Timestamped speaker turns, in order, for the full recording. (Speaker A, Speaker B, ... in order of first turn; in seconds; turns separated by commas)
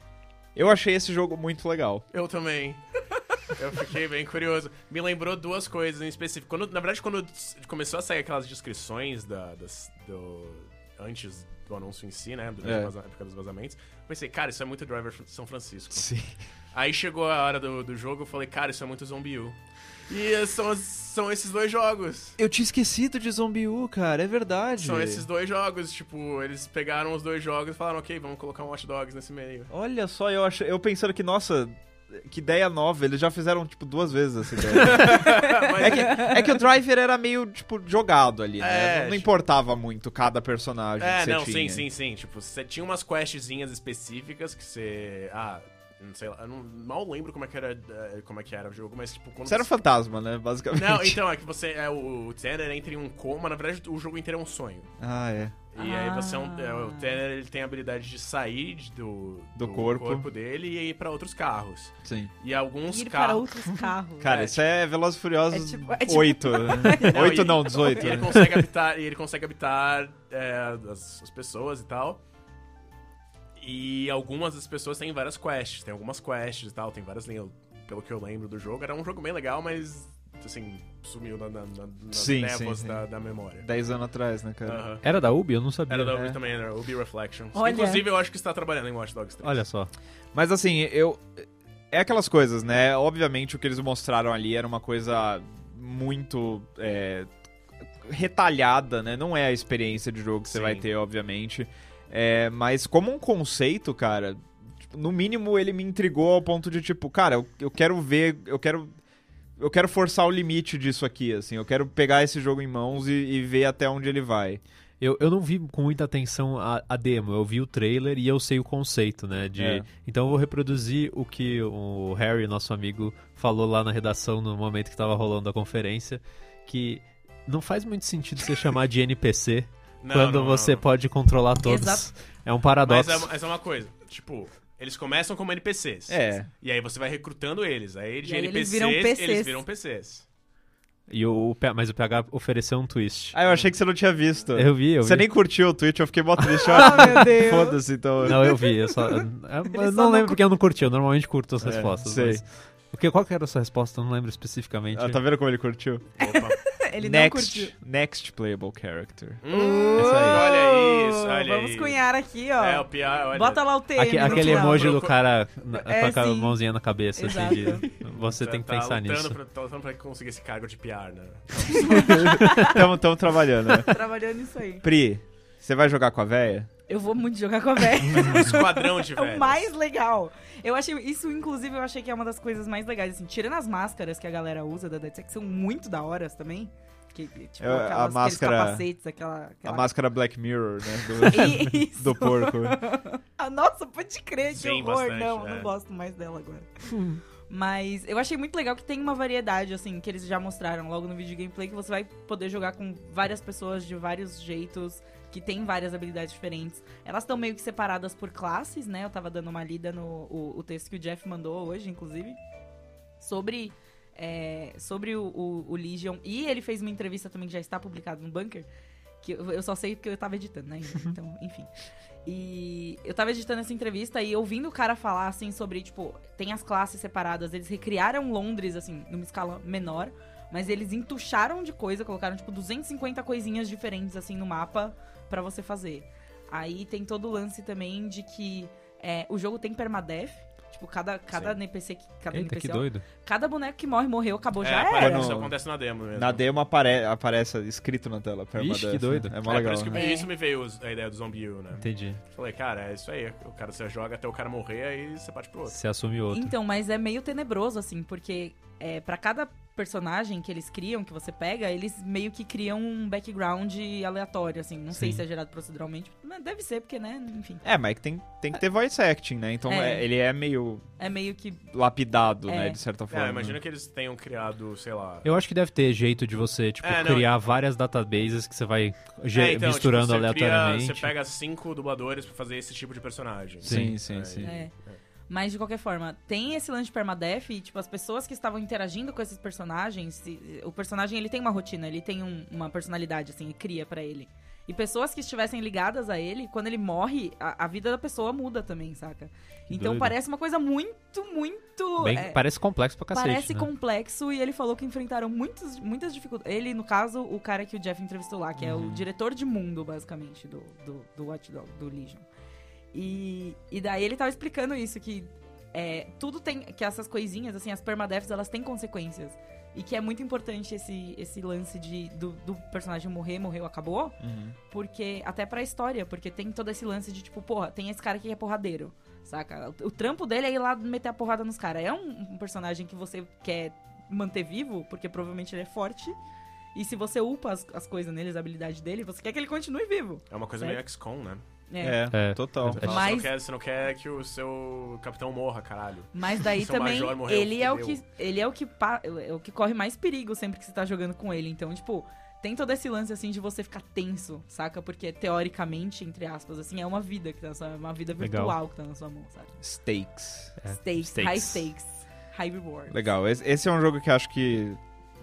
Speaker A: 0.5-2.0, Speaker B: 2.1-16.1, Speaker A: 12.6-12.9, Speaker A: 15.9-16.3, Speaker B: 16.7-19.6, Speaker B: 20.1-22.4, Speaker A: 22.4-25.2, Speaker B: 24.8-29.7, Speaker A: 29.7-41.8, Speaker B: 34.6-36.4, Speaker C: 35.1-36.4, Speaker B: 38.6-39.3, Speaker B: 41.0-49.7, Speaker A: 49.4-51.2, Speaker B: 50.7-54.9, Speaker A: 55.0-55.5, Speaker B: 55.7-63.5, Speaker C: 55.8-57.2, Speaker A: 59.5-60.3, Speaker A: 62.0-62.3, Speaker C: 62.9-64.3, Speaker A: 64.2-68.6, Speaker B: 64.2-64.6, Speaker C: 65.5-68.2, Speaker B: 66.9-72.2, Speaker B: 73.6-83.7, Speaker A: 82.1-83.0, Speaker A: 83.6-84.8, Speaker B: 84.6-85.0, Speaker D: 85.0-86.2, Speaker B: 85.9-89.6, Speaker A: 86.1-86.4, Speaker C: 87.5-88.0, Speaker D: 89.4-89.9, Speaker A: 90.3-97.3, Speaker A: 98.0-108.9, Speaker B: 100.5-100.9, Speaker A: 109.6-114.6, Speaker D: 115.0-133.3, Speaker A: 119.5-119.9, Speaker B: 130.0-130.8, Speaker C: 131.6-132.1, Speaker B: 132.8-140.2, Speaker A: 136.1-136.5, Speaker C: 138.2-139.6, Speaker D: 141.1-143.3, Speaker A: 143.3-148.5, Speaker B: 143.4-143.7, Speaker D: 144.5-145.3, Speaker D: 146.4-147.3, Speaker C: 146.6-150.4, Speaker D: 148.2-155.2, Speaker A: 151.6-152.4, Speaker A: 154.9-156.1, Speaker B: 156.2-156.6, Speaker C: 156.2-157.7, Speaker A: 157.0-159.4, Speaker B: 159.4-162.0, Speaker C: 159.5-165.0, Speaker D: 160.0-160.5, Speaker B: 162.6-165.2, Speaker D: 163.9-169.4, Speaker C: 165.7-166.6, Speaker C: 167.2-167.9, Speaker B: 168.0-172.4, Speaker C: 171.8-172.8, Speaker D: 172.2-172.8, Speaker A: 172.2-174.0, Speaker C: 173.8-174.8, Speaker A: 174.8-176.7, Speaker C: 176.9-189.9, Speaker B: 178.1-179.7, Speaker A: 187.6-188.8, Speaker A: 189.6-192.8, Speaker C: 191.1-196.9, Speaker B: 194.5-195.7, Speaker D: 196.9-197.2, Speaker C: 197.5-212.4, Speaker C: 213.2-218.7, Speaker C: 219.2-221.7, Speaker C: 222.2-245.4, Speaker B: 241.3-241.6, Speaker D: 242.3-243.0, Speaker B: 244.6-246.4, Speaker A: 244.9-245.6, Speaker A: 246.1-250.0, Speaker D: 248.6-249.4, Speaker B: 249.4-255.8, Speaker C: 249.9-250.3, Speaker D: 251.8-252.2, Speaker D: 255.7-256.5, Speaker C: 256.3-267.6, Speaker D: 264.9-265.2, Speaker A: 267.6-270.9, Speaker C: 269.7-270.1, Speaker C: 271.0-271.6, Speaker A: 271.7-273.6, Speaker C: 272.4-272.8, Speaker B: 273.1-275.3, Speaker D: 275.2-281.1, Speaker B: 276.8-277.3, Speaker B: 279.3-285.0, Speaker D: 283.6-284.0, Speaker A: 283.6-284.6, Speaker C: 284.4-284.7, Speaker C: 285.3-302.4, Speaker D: 299.7-300.1, Speaker D: 302.0-303.7, Speaker C: 303.1-312.2, Speaker A: 308.6-309.0, Speaker C: 312.9-324.2, Speaker A: 324.2-324.6, Speaker C: 324.7-336.1, Speaker C: 336.7-340.8, Speaker B: 340.3-341.4, Speaker C: 341.7-342.0, Speaker A: 341.8-343.1, Speaker D: 342.1-342.8, Speaker B: 342.6-348.0, Speaker C: 342.8-343.3, Speaker C: 346.1-359.5, Speaker D: 358.2-358.6, Speaker A: 359.6-360.5, Speaker D: 360.6-361.6, Speaker C: 360.8-363.0, Speaker A: 362.9-364.8